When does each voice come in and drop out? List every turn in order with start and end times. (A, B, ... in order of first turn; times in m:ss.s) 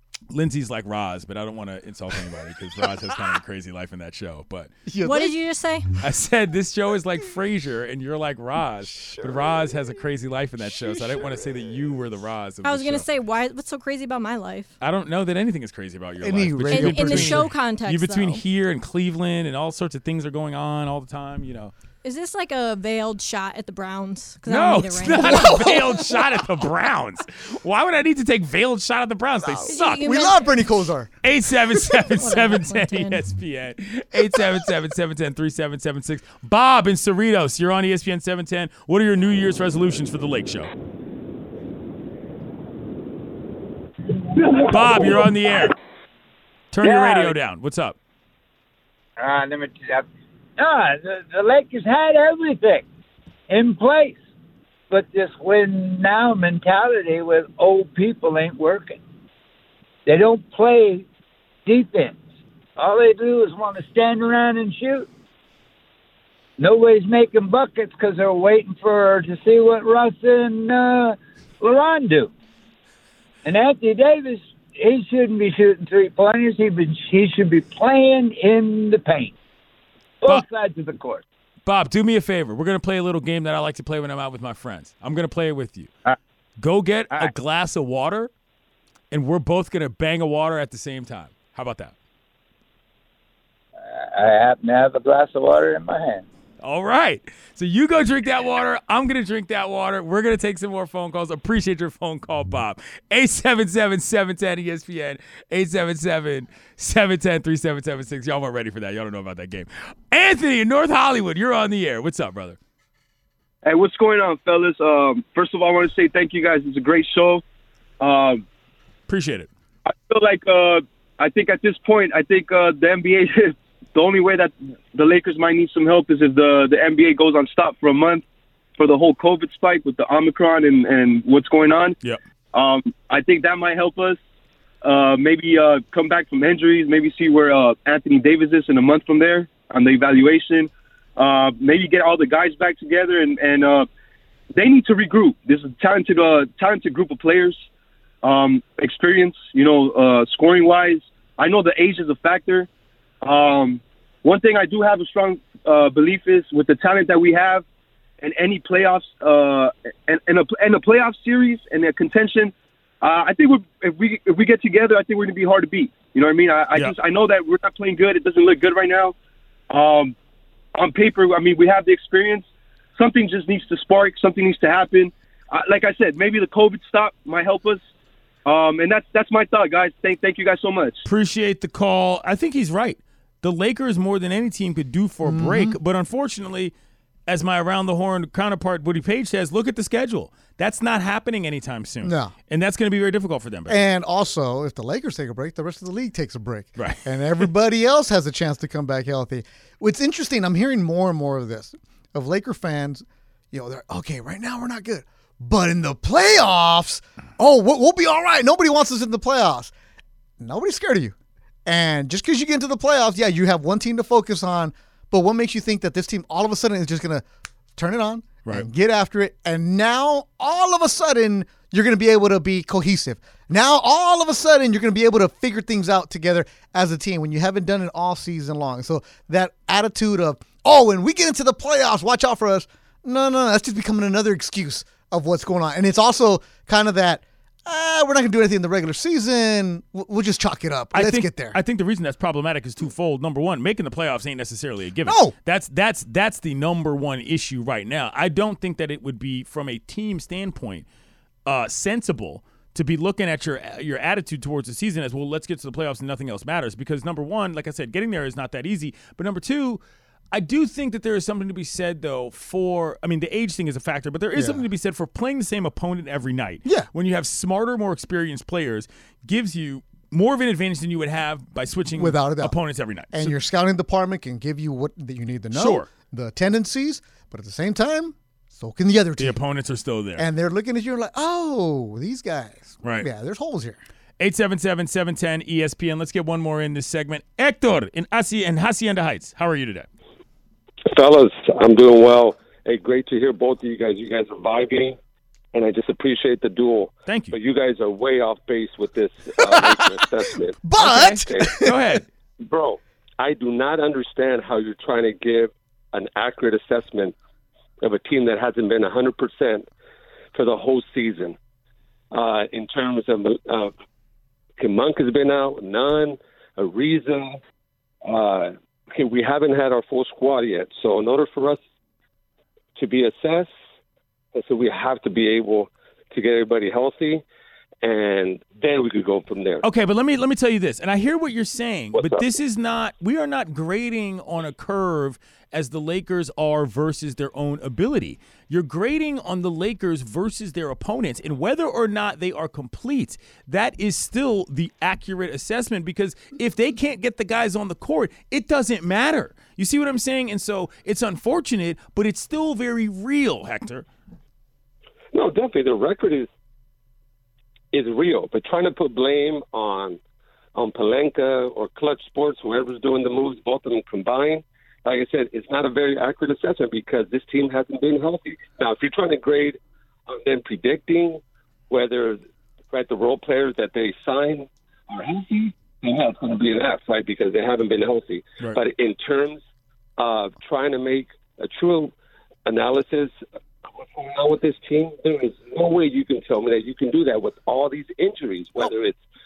0:00.3-0:04.7 A
0:04.9-0:05.4 B
0:05.0-0:06.0 C
0:06.0-0:13.1 A
0:12.6-0:14.7 C
0:14.8-0:21.7 A
0:16.2-0:17.5 B
0:16.7-0:18.4 C
0:22.0-0:25.9 C
0:24.5-0:30.3 A
0:25.2-0:26.4 B
0:29.5-0:31.2 B
0:29.7-0:30.4 C
0:31.2-0:40.7 A
0:32.2-0:33.2 C
0:44.5-0:45.2 D
0:44.7-0:45.7 A
0:46.7-0:48.0 A
0:46.8-0:47.3 D
0:49.2-0:50.1 D
0:50.6-0:52.9 D
0:53.5-0:54.2 D
0:54.9-0:59.0 D
1:00.1-1:01.1 D
1:01.7-1:02.2 D
1:02.8-1:05.1 D
1:06.6-1:12.3 D
1:13.4-1:19.4 D
1:20.2-1:21.2 D
1:21.7-1:25.9 A
1:26.6-1:28.3 A
1:29.1-1:31.9 A
1:33.8-1:36.3 D
1:36.6-1:52.6 A
1:53.6-1:57.4 E
1:58.0-1:58.4 E
1:59.1-1:59.5 A
1:59.9-2:08.2 E
2:08.8-2:12.0 E
2:12.5-2:14.2 E
2:14.8-2:23.9 E
2:24.5-2:27.6 E
2:28.2-2:32.7 E
2:33.2-2:37.6 E
2:38.2-2:49.2 E
2:49.7-2:50.2 E
2:50.8-2:52.5 E
2:53.0-2:57.8 E
2:58.5-3:01.0 E
3:01.0-3:06.7 A
3:05.2-3:05.8 B
3:07.3-3:13.8 A
3:12.0-3:12.3 B
3:13.7-3:29.7 B
3:16.8-3:17.0 A
3:30.4-3:31.2 B
3:31.7-3:37.2 B
3:37.8-4:01.6 B
4:00.9-4:10.8 A
4:05.1-4:05.3 B
4:11.5-4:19.8 A
4:20.3-4:33.3 A
4:24.4-4:24.6 B
4:32.0-4:32.6 B
4:33.1-4:39.4 B
4:35.5-4:35.9 A
4:39.2-4:40.2 A
4:40.2-4:43.8 B
4:42.8-4:43.1 A
4:44.2-4:49.9 A
4:50.9-4:55.0 F
4:55.5-5:00.6 F
4:57.1-4:57.4 A
5:00.6-5:01.8 B
5:00.8-5:02.0 A
5:01.3-5:01.6 F
5:02.4-5:07.1 F
5:07.8-5:09.7 F
5:10.3-5:11.4 F
5:12.1-5:13.7 F
5:14.6-5:17.4 F
5:18.0-5:21.6 F
5:22.8-5:23.5 F
5:24.3-5:27.2 F
5:27.8-5:29.6 F
5:29.6-5:53.9 A
5:31.9-5:32.2 F
5:55.1-5:56.3 F
5:57.7-6:00.0 F
6:00.6-6:12.2 F
6:12.7-6:19.4 F
6:20.0-6:21.9 F
6:22.5-6:23.1 F
6:23.8-6:29.0 F